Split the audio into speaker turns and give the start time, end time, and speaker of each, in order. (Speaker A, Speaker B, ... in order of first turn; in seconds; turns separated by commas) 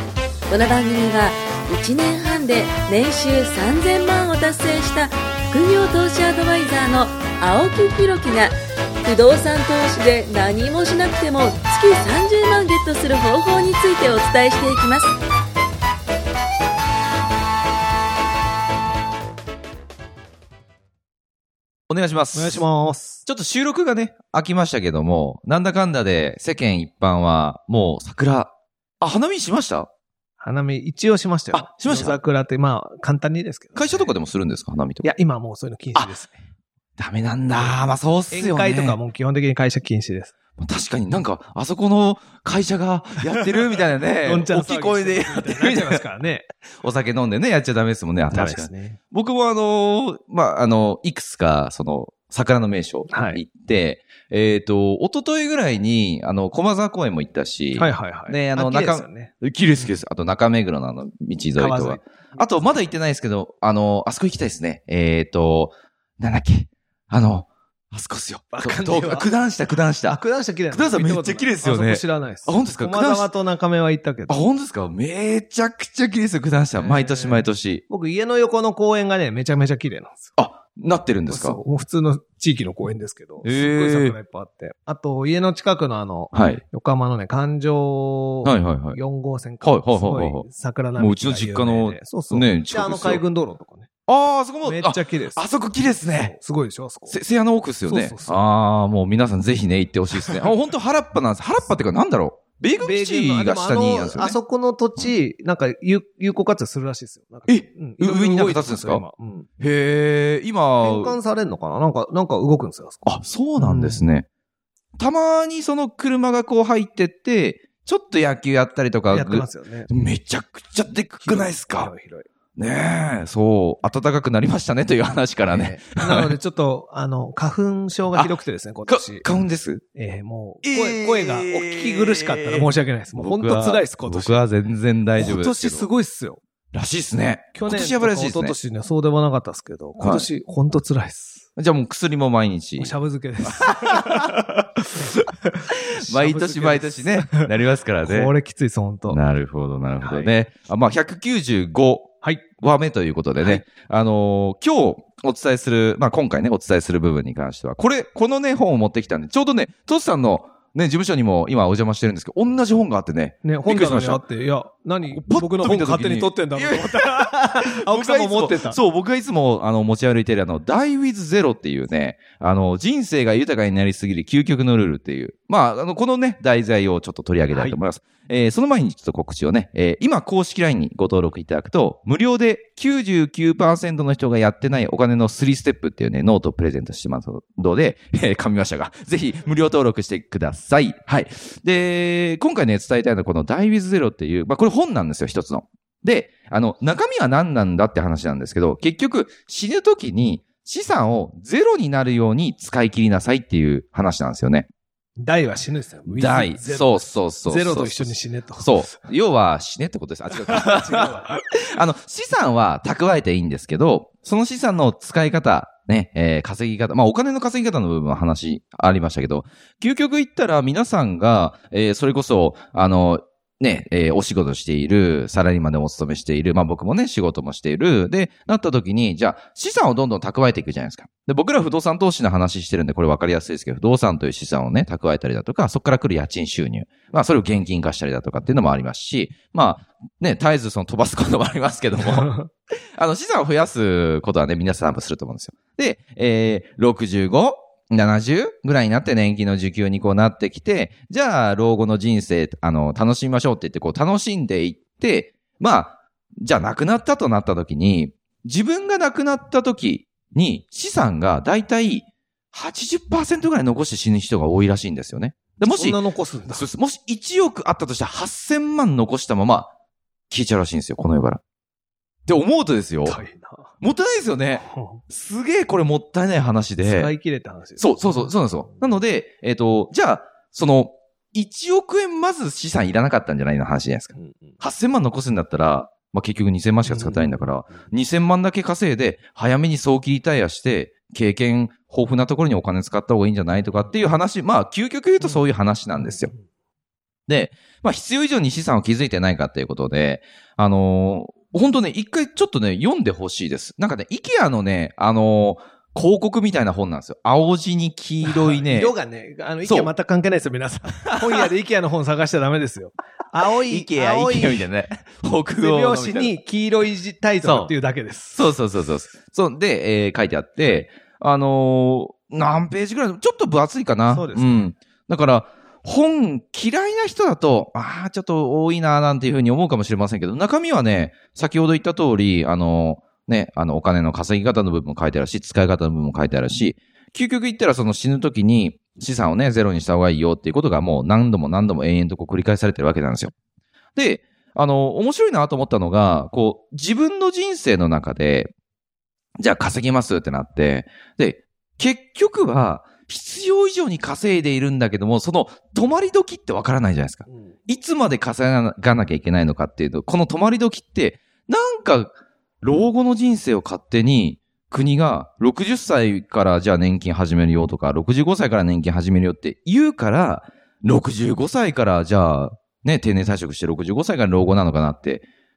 Speaker A: 0.5-15.1, Speaker B: 21.9-22.6, Speaker C: 22.3-23.2, Speaker B: 23.2-29.9, Speaker C: 30.4-34.1, Speaker B: 31.5-32.1, Speaker B: 33.8-35.1, Speaker C: 35.0-36.4, Speaker B: 37.0-39.0, Speaker C: 38.3-40.3, Speaker B: 40.6-46.0, Speaker C: 44.2-46.5, Speaker B: 46.8-70.2, Speaker C: 48.3-49.0, Speaker C: 53.1-53.4, Speaker C: 57.7-59.9, Speaker C: 61.5-62.7, Speaker C: 68.5-69.3, Speaker C: 70.0-74.4, Speaker B: 70.7-73.3, Speaker B: 74.3-77.8, Speaker C: 76.8-80.3, Speaker B: 80.4-81.6, Speaker C: 81.3-93.9, Speaker B: 83.4-84.1, Speaker B: 86.3-86.6, Speaker B: 88.4-89.0, Speaker B: 89.6-93.2, Speaker B: 94.1-96.3, Speaker C: 94.6-95.4, Speaker C: 96.1-97.2, Speaker B: 97.1-104.3, Speaker C: 97.9-98.4, Speaker C: 100.2-100.5, Speaker C: 102.8-109.5, Speaker B: 107.5-109.0, Speaker B: 109.6-111.2, Speaker C: 110.8-114.0, Speaker B: 113.0-114.3, Speaker B: 115.0-121.9, Speaker C: 119.1-119.9, Speaker C: 121.2-122.3, Speaker B: 122.6-126.3, Speaker C: 125.5-129.2, Speaker B: 128.9-129.8, Speaker C: 129.9-134.4, Speaker B: 130.6-135.9, Speaker C: 135.2-136.4, Speaker B: 136.7-138.6, Speaker C: 137.5-141.5, Speaker B: 140.0-140.3, Speaker B: 141.6-144.3, Speaker C: 142.8-147.5, Speaker B: 145.9-148.3, Speaker C: 148.0-149.2, Speaker B: 149.1-164.2, Speaker C: 150.0-150.3, Speaker C: 163.4-168.8, Speaker B: 165.1-204.7, Speaker C: 177.5-177.8, Speaker C: 205.2-208.7, Speaker B: 206.1-242.3, Speaker C: 210.3-211.3, Speaker C: 242.1-242.5, Speaker B: 243.0-266.0, Speaker C: 265.6-266.6, Speaker B: 266.5-269.7, Speaker B: 270.3-271.4, Speaker B: 272.2-273.2, Speaker C: 273.1-273.7, Speaker B: 273.8-277.1, Speaker C: 274.6-275.0, Speaker C: 276.8-278.3, Speaker B: 277.8-296.3, Speaker C: 284.1-284.5, Speaker C: 286.9-287.3, Speaker C: 293.6-294.0, Speaker C: 296.0-296.4, Speaker B: 297.3-308.9, Speaker C: 308.2-314.6, Speaker B: 309.6-309.9, Speaker B: 311.1-311.5, Speaker B: 313.7-316.3, Speaker C: 315.5-318.4, Speaker B: 317.4-317.7, Speaker B: 318.3-343.3, Speaker C: 324.1-324.7, Speaker B: 343.9-348.5, Speaker B: 349.4-375.2, Speaker C: 357.3-357.6